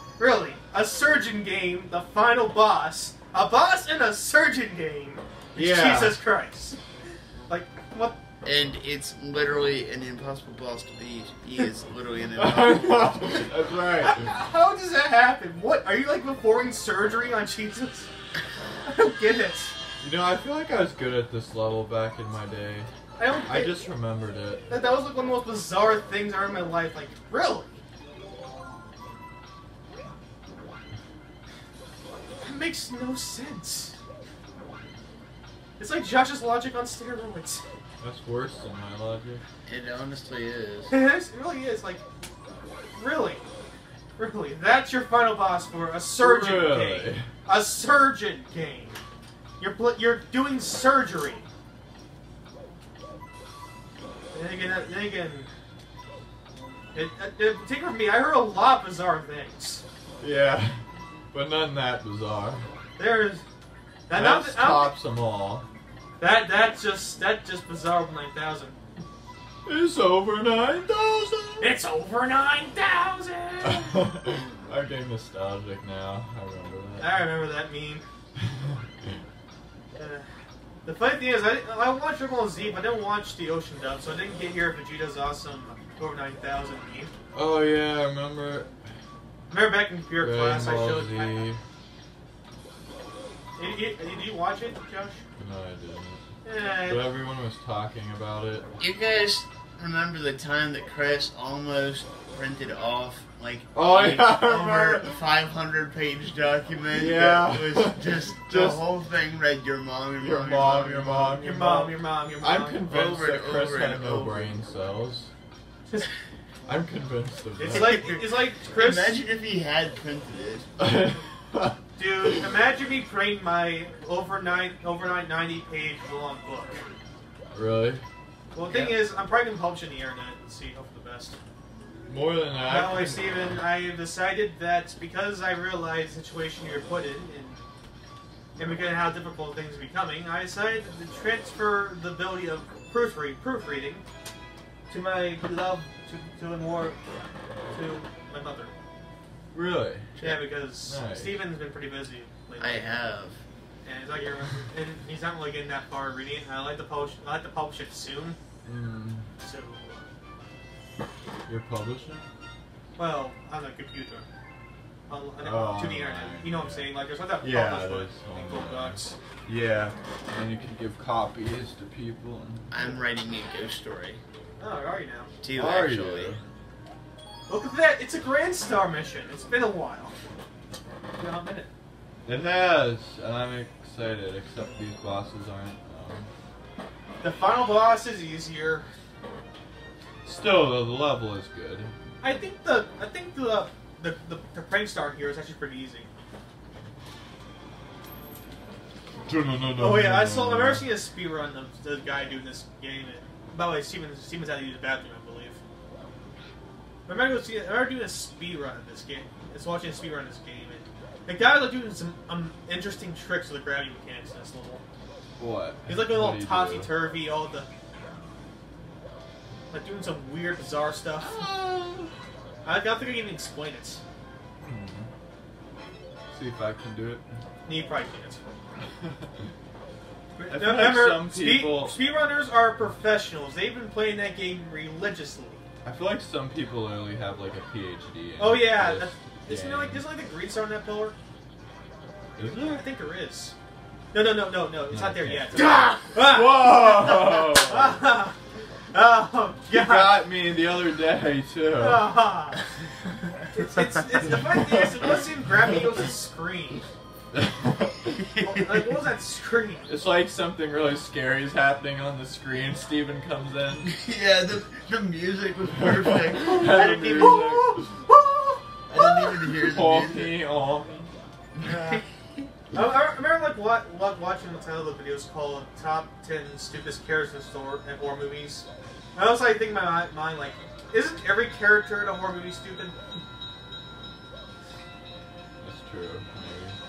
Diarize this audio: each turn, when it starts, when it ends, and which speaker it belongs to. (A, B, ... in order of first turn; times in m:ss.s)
0:00.2-0:06.8 A
0:05.6-0:06.2 B
0:07.5-0:08.2 A
0:08.4-0:13.4 C
0:12.4-0:14.3 B
0:14.0-0:18.1 A
0:18.9-0:19.8 A
0:20.0-0:22.9 B
0:23.2-0:23.8 A
0:23.4-0:24.6 B
0:24.7-0:27.8 A
0:32.4-0:34.0 A
0:35.8-0:37.6 A
0:38.0-0:39.4 B
0:39.7-0:40.9 C
0:40.9-0:42.0 A
0:42.9-0:43.4 A
0:44.2-0:49.0 A
0:46.2-0:47.3 B
0:49.6-0:51.5 A
0:54.3-0:55.5 A
0:56.9-0:59.8 A
1:00.2-1:00.8 B
1:01.3-1:02.7 B
1:03.0-1:03.4 A
1:04.1-1:04.9 A
1:04.1-1:05.7 B
1:06.2-1:08.8 A
1:09.7-1:11.8 B
1:11.6-1:14.0 A
1:13.6-1:17.2 B
1:17.0-1:18.0 A
1:20.0-1:20.3 A
1:20.8-1:27.1 A
1:27.3-1:28.7 B
1:29.5-1:31.4 A
1:30.2-1:31.6 B
1:33.6-1:35.2 A
1:35.4-1:36.2 B
1:36.4-1:37.1 A
1:36.7-1:38.7 B
1:38.8-1:51.4 C
1:43.7-1:45.2 B
1:46.9-1:48.8 B
1:50.2-1:55.3 B
1:51.4-1:52.8 A
1:52.9-1:54.6 C
1:56.7-1:58.0 B
1:57.6-1:59.2 A
1:57.7-2:00.7 C
2:00.8-2:01.8 B
2:02.0-2:06.9 A
2:07.5-2:08.0 B
2:08.5-2:11.4 A
2:08.6-2:09.0 C
2:12.1-2:13.4 B
2:12.6-2:17.6 A
2:18.6-2:24.0 A
2:24.9-2:27.0 A
2:27.7-2:28.7 A
2:29.5-2:30.1 B
2:30.2-2:30.5 C
2:30.2-2:33.1 A
2:30.8-2:31.4 B
2:32.6-2:33.4 C
2:33.8-2:38.4 A
2:38.6-2:39.3 B
2:39.4-2:40.1 A
2:41.5-2:42.3 B
2:43.0-2:44.3 A
2:45.1-2:49.2 A
2:45.4-2:52.7 B
2:52.7-2:54.2 C
2:54.6-2:55.3 A
2:55.4-2:56.4 C
2:55.5-2:56.4 B
2:57.5-3:00.2 A
3:01.2-3:01.7 A
3:02.2-3:06.3 B
3:07.2-3:08.9 A
3:10.2-3:11.9 B
3:12.2-3:16.1 A
3:19.2-3:20.9 B
3:19.8-3:25.6 A
3:27.1-3:34.8 A
3:35.4-3:37.0 B
3:35.9-3:37.7 A
3:39.7-3:41.5 A
3:41.2-3:42.1 B
3:42.6-3:44.0 A
3:44.6-3:45.1 B
3:46.3-3:47.2 B
3:47.6-3:48.4 A
3:50.4-3:52.0 B
3:50.4-3:55.6 A
3:55.8-4:00.0 B
3:58.4-4:01.2 A
4:02.4-4:02.9 B
4:02.4-4:03.6 A
4:04.1-4:08.4 A
4:04.9-4:08.0 B
4:05.6-4:06.0 C
4:08.9-4:10.2 A
4:09.7-4:12.2 B
4:11.8-4:12.6 A
4:13.5-4:16.8 A
4:14.2-4:15.2 B
4:17.3-4:18.2 B
4:18.3-4:18.8 C
4:18.4-4:19.9 A
4:19.9-4:23.9 B
4:23.9-4:27.4 C
4:25.8-4:28.0 B
4:26.4-4:29.3 A
4:28.9-4:30.4 C
4:29.6-4:31.1 B
4:31.6-4:32.5 C
4:31.7-4:32.0 A
4:32.7-4:43.2 A
4:45.6-4:46.8 B